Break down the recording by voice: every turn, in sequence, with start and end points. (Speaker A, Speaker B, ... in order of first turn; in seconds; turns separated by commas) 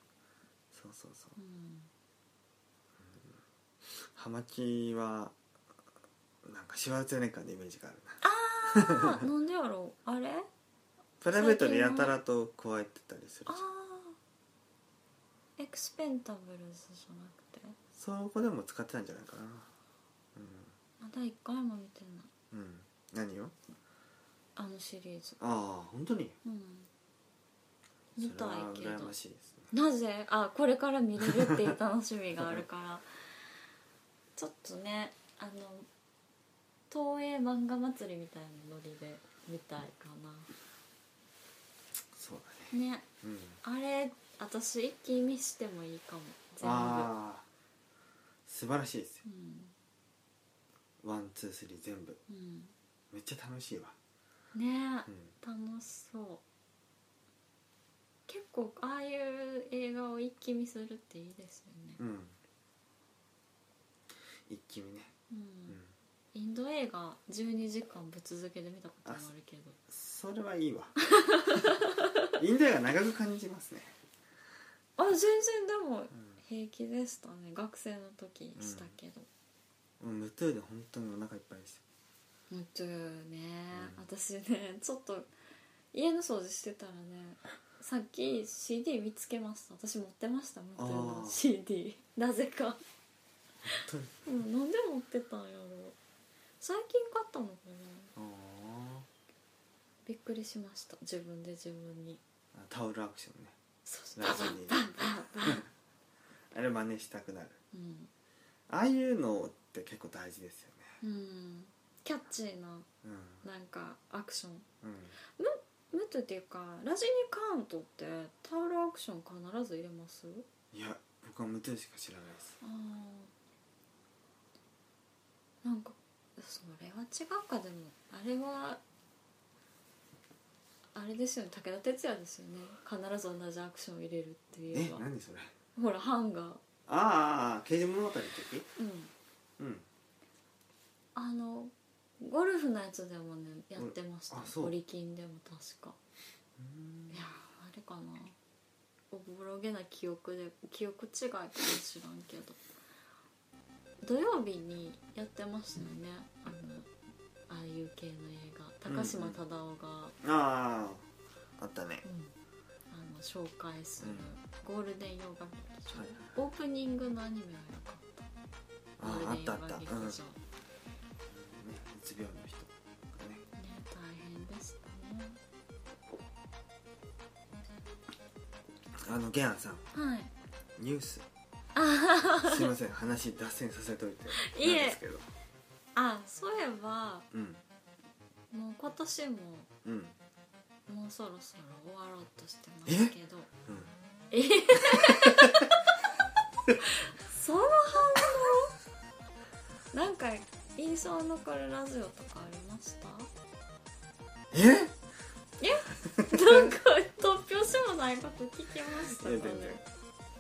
Speaker A: 0.7-1.4, Speaker B: 1.4-1.9, Speaker A: 3.0-5.4, Speaker A: 6.4-9.2, Speaker B: 8.2-10.5, Speaker A: 11.2-13.6, Speaker B: 11.3-12.1, Speaker B: 13.5-14.2, Speaker B: 15.6-17.8, Speaker A: 17.9-19.7, Speaker A: 20.4-20.7, Speaker B: 21.0-22.3, Speaker A: 22.5-23.6, Speaker B: 24.6-25.4, Speaker A: 25.4-26.4, Speaker B: 26.4-26.9, Speaker B: 28.2-29.1, Speaker A: 28.2-29.7, Speaker B: 29.7-33.4, Speaker A: 31.2-31.8, Speaker B: 34.4-35.9, Speaker B: 36.9-40.5, Speaker A: 42.1-43.6, Speaker B: 42.7-43.1, Speaker B: 43.6-47.1, Speaker A: 46.6-47.5, Speaker A: 48.5-49.2, Speaker B: 49.2-49.8, Speaker A: 51.0-52.2, Speaker B: 52.3-52.7, Speaker A: 53.1-54.0, Speaker B: 54.5-56.4, Speaker B: 58.3-62.0, Speaker A: 62.0-62.4, Speaker A: 64.5-65.1, Speaker B: 65.3-65.8, Speaker B: 66.3-69.8, Speaker A: 69.9-71.0, Speaker B: 71.0-72.3, Speaker A: 72.4-73.9, Speaker B: 75.0-79.3, Speaker A: 78.6-79.0, Speaker A: 80.0-81.8, Speaker B: 82.5-85.3, Speaker A: 83.7-84.0, Speaker B: 85.9-92.8, Speaker A: 90.8-91.4, Speaker A: 93.6-94.2, Speaker B: 93.7-96.0, Speaker B: 96.6-98.1, Speaker A: 98.2-99.1, Speaker B: 100.1-102.2, Speaker A: 102.5-103.6, Speaker B: 103.9-105.7, Speaker A: 104.2-105.7, Speaker A: 106.5-107.6, Speaker B: 107.7-108.1, Speaker A: 108.7-111.0, Speaker B: 111.0-112.9, Speaker A: 113.0-113.5, Speaker B: 113.4-114.7, Speaker A: 114.8-115.2, Speaker B: 115.4-120.5, Speaker A: 120.7-122.6, Speaker B: 122.6-123.3, Speaker B: 125.6-128.8, Speaker B: 130.9-135.1, Speaker A: 134.7-135.5, Speaker B: 135.8-136.6, Speaker A: 136.9-138.7, Speaker B: 138.8-139.1, Speaker A: 139.6-139.9, Speaker B: 141.2-146.0, Speaker A: 143.8-144.7, Speaker A: 146.6-147.2, Speaker B: 147.1-148.4, Speaker B: 149.1-152.6, Speaker B: 154.0-156.9, Speaker B: 157.5-160.2, Speaker A: 158.9-159.4, Speaker A: 160.2-161.1, Speaker A: 161.6-162.1, Speaker B: 162.0-162.3, Speaker B: 162.9-168.3, Speaker A: 164.0-164.3, Speaker A: 165.9-166.3, Speaker A: 169.0-170.2, Speaker B: 169.0-170.4, Speaker A: 171.3-173.4, Speaker B: 173.6-175.4, Speaker A: 179.0-179.9, Speaker B: 179.9-180.3, Speaker A: 180.8-181.3, Speaker B: 181.8-182.7, Speaker A: 182.4-185.2, Speaker B: 184.3-185.0, Speaker B: 185.9-187.3, Speaker A: 187.3-187.6, Speaker B: 188.5-189.7, Speaker A: 189.8-190.2, Speaker B: 190.9-193.5, Speaker A: 192.9-193.1, Speaker A: 193.7-193.9, Speaker B: 194.3-195.8, Speaker A: 194.9-195.7, Speaker B: 196.8-198.7, Speaker B: 199.9-203.3, Speaker A: 204.5-205.0, Speaker B: 205.6-209.8, Speaker A: 206.1-206.7, Speaker A: 209.0-209.8